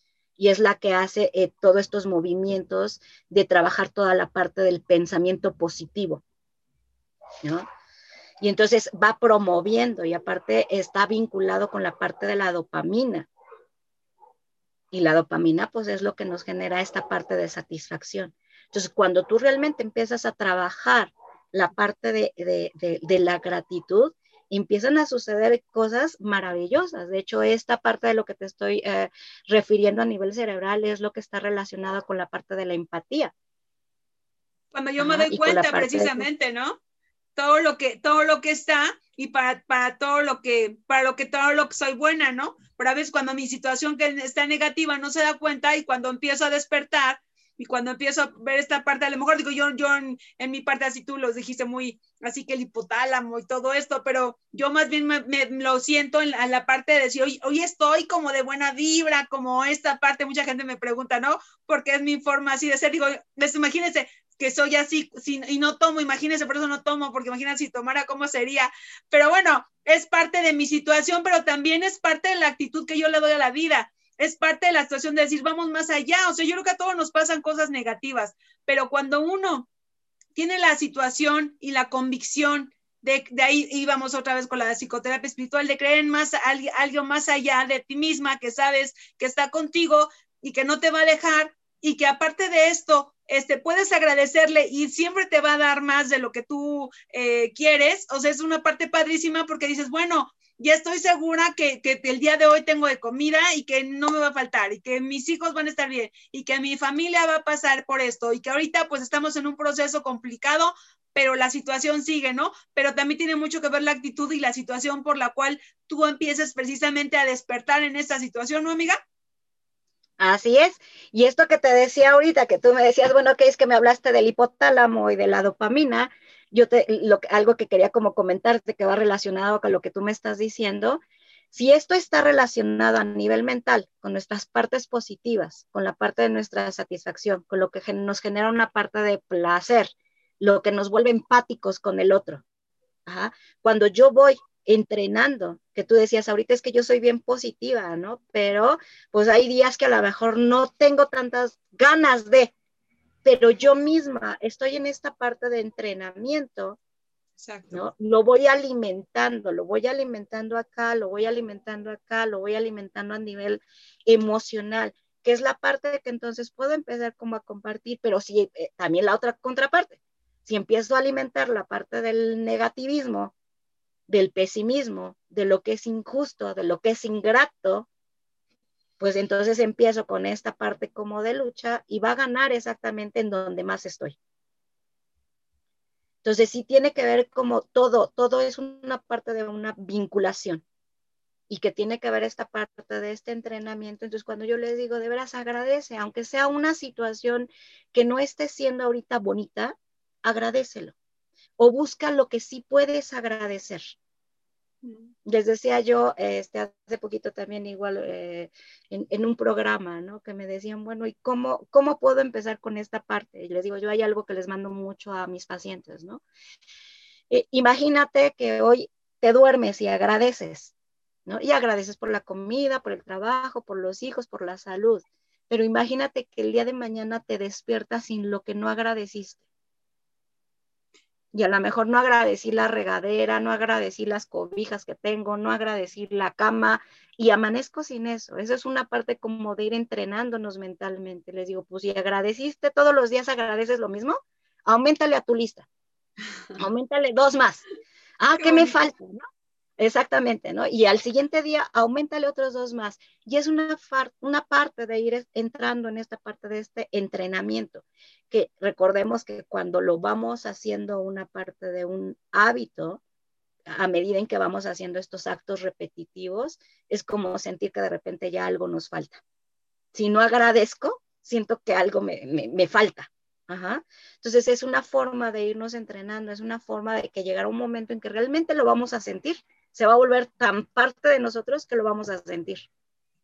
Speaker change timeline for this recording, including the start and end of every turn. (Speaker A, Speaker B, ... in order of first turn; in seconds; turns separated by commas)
Speaker A: 0.4-6.2, Speaker A: 8.4-13.3, Speaker A: 14.9-33.3, Speaker B: 34.7-36.8, Speaker A: 35.0-36.3, Speaker B: 37.4-79.7, Speaker B: 80.3-119.0, Speaker A: 120.2-131.0, Speaker A: 131.5-142.4, Speaker A: 143.1-152.5, Speaker A: 153.2-156.8, Speaker B: 157.4-157.8, Speaker A: 157.7-173.3, Speaker A: 174.1-177.9, Speaker A: 179.0-184.2, Speaker A: 186.2-190.6, Speaker A: 191.5-200.9, Speaker A: 201.6-203.9, Speaker B: 204.8-205.1, Speaker A: 205.2-216.2, Speaker A: 217.3-220.7, Speaker A: 221.2-229.4, Speaker A: 231.3-245.7, Speaker A: 246.6-247.6, Speaker A: 248.2-249.2, Speaker B: 248.3-248.8, Speaker A: 249.8-263.0, Speaker A: 263.7-269.2, Speaker A: 269.9-282.6